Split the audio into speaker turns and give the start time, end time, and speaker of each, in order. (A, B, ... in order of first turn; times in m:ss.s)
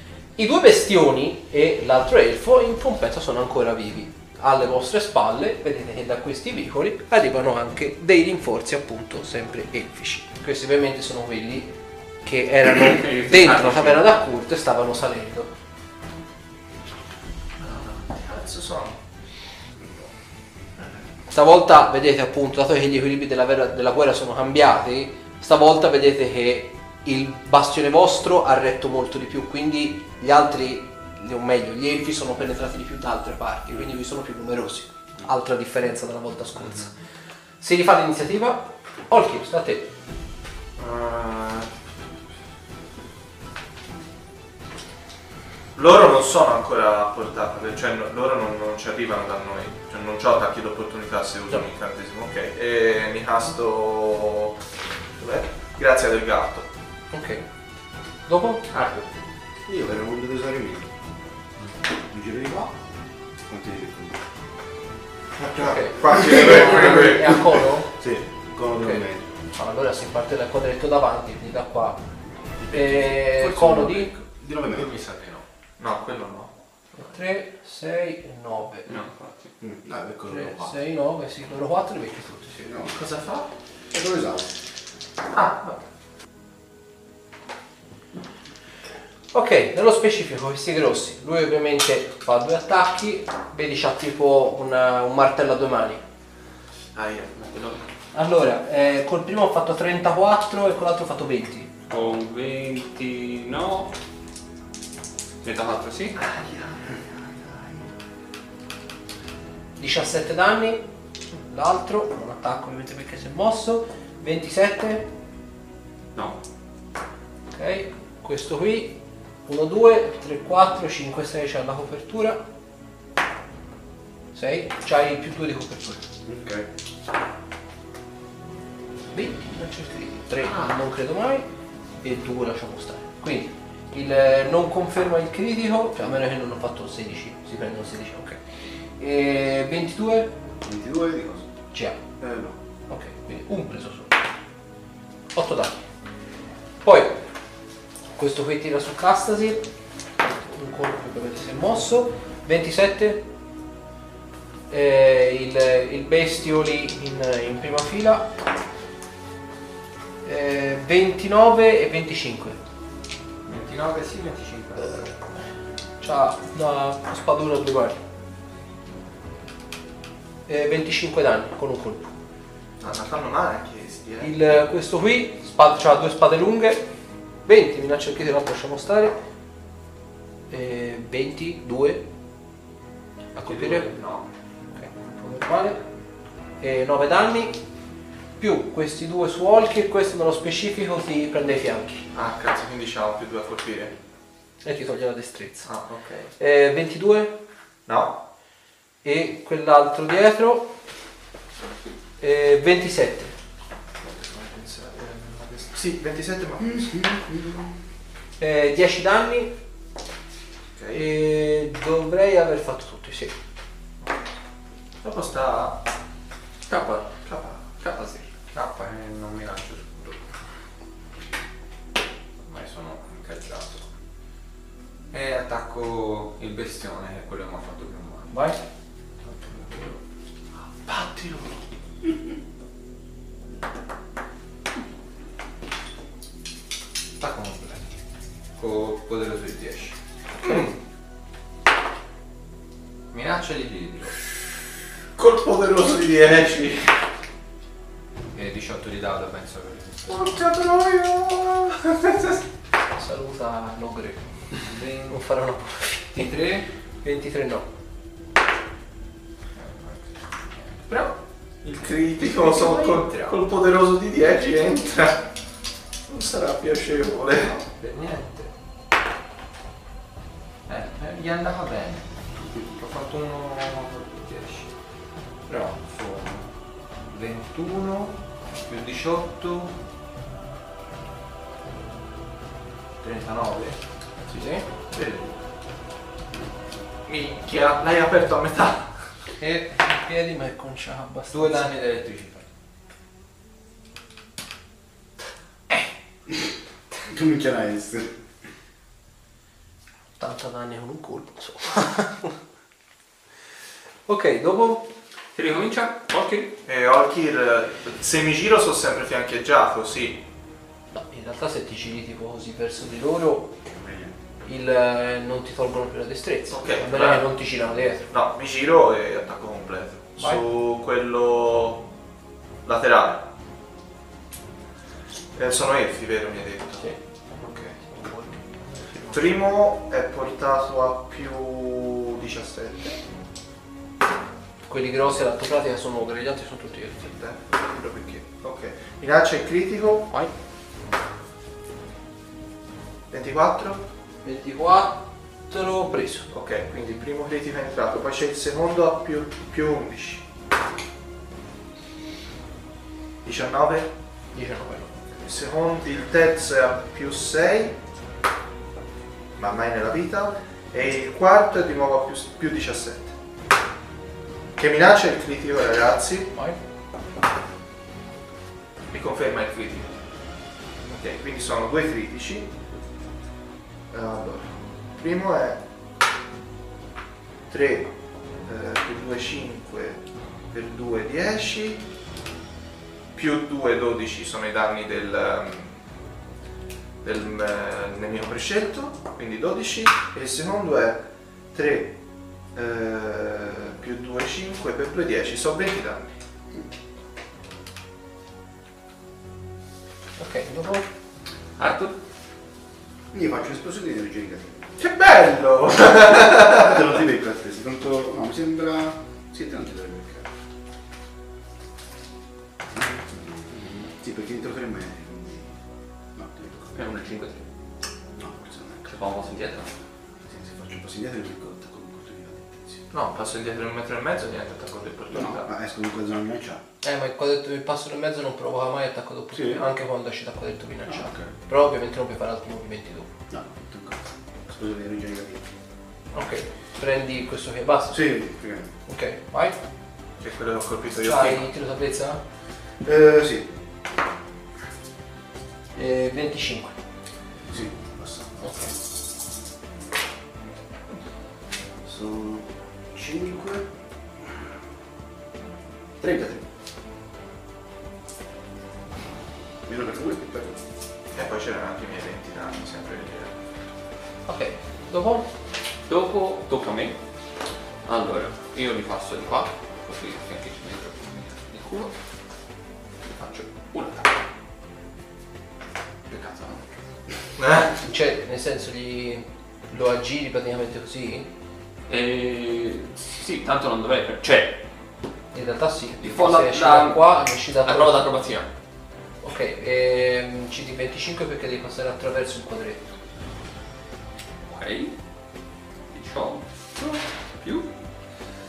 0:00.4-0:11.7 A
0:12.2-0:15.5 A
0:12.8-0:14.1 B
0:17.6-0:19.0 C
0:21.3-0:36.9 A
0:37.6-0:39.9 A
0:40.8-0:41.7 C
0:45.8-0:54.6 C
0:55.2-0:56.7 C
0:57.1-0:57.4 A
0:58.3-0:58.6 A
0:58.8-0:59.0 C
0:59.7-1:00.9 D
1:02.1-1:02.8 D
1:03.5-1:04.2 D
1:05.4-1:07.6 C
1:05.6-1:07.9 A
1:06.1-1:09.3 D
1:08.7-1:09.0 A
1:09.6-1:12.0 A
1:12.6-1:14.9 D
1:12.7-1:14.1 A
1:14.7-1:15.4 E
1:15.8-1:16.5 C
1:17.0-1:19.0 A
1:18.9-1:19.5 B
1:19.6-1:20.8 D
1:20.3-1:22.7 A
1:22.6-1:23.0 D
1:22.9-1:23.5 C
1:23.9-1:24.5 D
1:25.3-1:25.8 C
1:29.3-1:36.0 A
1:36.9-1:37.4 C
1:37.4-1:37.8 B
1:38.1-1:41.7 A
1:41.9-1:43.9 B
1:45.4-1:46.2 B
1:46.2-1:47.1 C
1:49.8-1:55.1 A
1:57.5-1:59.0 A
1:59.5-2:02.4 A
2:04.3-2:06.0 A
2:06.2-2:06.7 D
2:09.1-2:11.5 A
2:12.0-2:18.4 A
2:19.0-2:20.3 A
2:20.6-2:21.5 D
2:21.7-2:22.0 A
2:22.2-2:22.6 D
2:22.9-2:24.2 A
2:25.3-2:25.8 A
2:26.8-2:27.2 A
2:28.2-2:29.6 A
2:30.2-2:33.3 A
2:34.7-2:38.3 A
2:40.2-2:42.6 A
2:43.5-2:45.1 E
2:46.0-2:48.0 A
2:50.5-2:52.1 A
2:52.8-2:54.6 C
2:54.2-2:56.8 A
2:57.5-2:59.2 A
3:00.5-3:02.0 A
3:03.4-3:03.9 A
3:03.4-3:04.3 E
3:04.8-3:05.8 A
3:06.6-3:07.6 A
3:08.4-3:12.1 A
3:12.1-3:13.9 C
3:14.6-3:15.7 A
3:15.6-3:16.3 C
3:16.4-3:17.3 A
3:17.9-3:18.2 C
3:19.0-3:20.7 A
3:22.2-3:23.3 A
3:24.0-3:26.9 C
3:26.6-3:27.7 D
3:28.4-3:29.5 A
3:30.8-3:31.0 C
3:30.9-3:33.3 A
3:35.0-3:35.8 C
3:36.7-3:37.1 B
3:37.2-3:37.6 C
3:37.8-3:38.3 B
3:38.5-3:40.2 E
3:42.5-3:43.8 E
3:45.1-3:48.5 E
3:48.3-3:48.6 A
3:49.2-3:50.0 E
3:50.9-3:51.6 C
3:57.2-3:57.9 E
3:58.6-4:00.0 E
4:00.4-4:00.8 C
4:03.1-4:04.2 E
4:05.2-4:06.9 C
4:08.3-4:10.3 E
4:10.1-4:12.4 C
4:13.0-4:14.2 A
4:14.6-4:15.2 E
4:15.1-4:16.3 A
4:16.1-4:16.7 E
4:17.0-4:17.7 A
4:19.6-4:20.0 E
4:20.6-4:21.2 E
4:21.6-4:25.2 C
4:22.2-4:23.4 E
4:26.1-4:27.6 C
4:27.4-4:28.5 E
4:30.7-4:32.1 E
4:32.4-4:32.7 D
4:32.8-4:34.7 E
4:35.5-4:36.5 E
4:37.1-4:39.7 E
4:43.0-4:43.8 E
4:44.3-4:44.6 A
4:44.9-4:45.4 E
4:47.1-4:48.9 C
4:49.5-4:51.8 A
4:51.3-4:52.5 E
4:57.1-4:58.1 D
5:00.2-5:02.3 A
5:04.1-5:04.9 A
5:05.4-5:06.5 B
5:06.7-5:10.2 C
5:10.9-5:13.5 A
5:13.7-5:14.2 D
5:14.4-5:18.1 A
5:16.5-5:17.3 C
5:18.1-5:21.8 C
5:22.6-5:23.3 C
5:25.4-5:26.9 C
5:27.4-5:27.8 E
5:28.7-5:29.4 E
5:29.1-5:33.0 C
5:34.7-5:37.2 A
5:37.1-5:40.1 C
5:43.1-5:43.8 C
5:44.2-5:46.3 A
5:46.3-5:50.2 C
5:53.2-5:53.9 C
5:54.3-5:54.9 A
5:55.1-5:57.8 C
5:59.4-6:03.1 C
6:04.6-6:06.3 C
6:08.9-6:09.9 C
6:10.9-6:12.5 C
6:13.9-6:15.6 C
6:17.5-6:17.9 C
6:18.4-6:21.8 C
6:23.1-6:25.8 C
6:27.0-6:32.0 C
6:32.6-6:36.1 C
6:40.2-6:40.9 A
6:41.6-6:42.0 B
6:43.1-6:44.7 D
6:44.8-6:47.0 C
6:46.5-6:50.3 D
6:52.7-6:55.6 D
6:56.2-6:56.8 D
6:56.7-6:57.4 B
6:58.2-6:59.1 D
6:58.9-6:59.7 B
7:00.2-7:02.8 D
7:02.9-7:05.5 C
7:05.1-7:06.6 D
7:06.8-7:13.1 A
7:09.3-7:09.6 D
7:10.9-7:11.3 D
7:13.3-7:15.5 D
7:16.1-7:18.1 A
7:17.9-7:18.7 D
7:18.9-7:19.6 A
7:20.2-7:21.5 C
7:21.0-7:22.2 A
7:22.8-7:23.5 D
7:25.8-7:26.8 A
7:27.5-7:28.7 D
7:28.4-7:28.7 A
7:31.8-7:33.7 D
7:36.0-7:36.4 D
7:39.7-7:40.6 D
7:41.1-7:43.3 C
7:44.3-7:45.3 A
7:45.9-7:47.0 B
7:47.8-7:51.9 B
7:53.2-7:54.1 B
7:56.1-7:56.8 B
7:57.4-7:57.7 C
7:57.8-8:01.3 A
8:01.9-8:04.6 B
8:05.3-8:08.1 A
8:06.0-8:08.5 B
8:09.2-8:12.9 A
8:14.5-8:15.0 B
8:15.9-8:17.7 B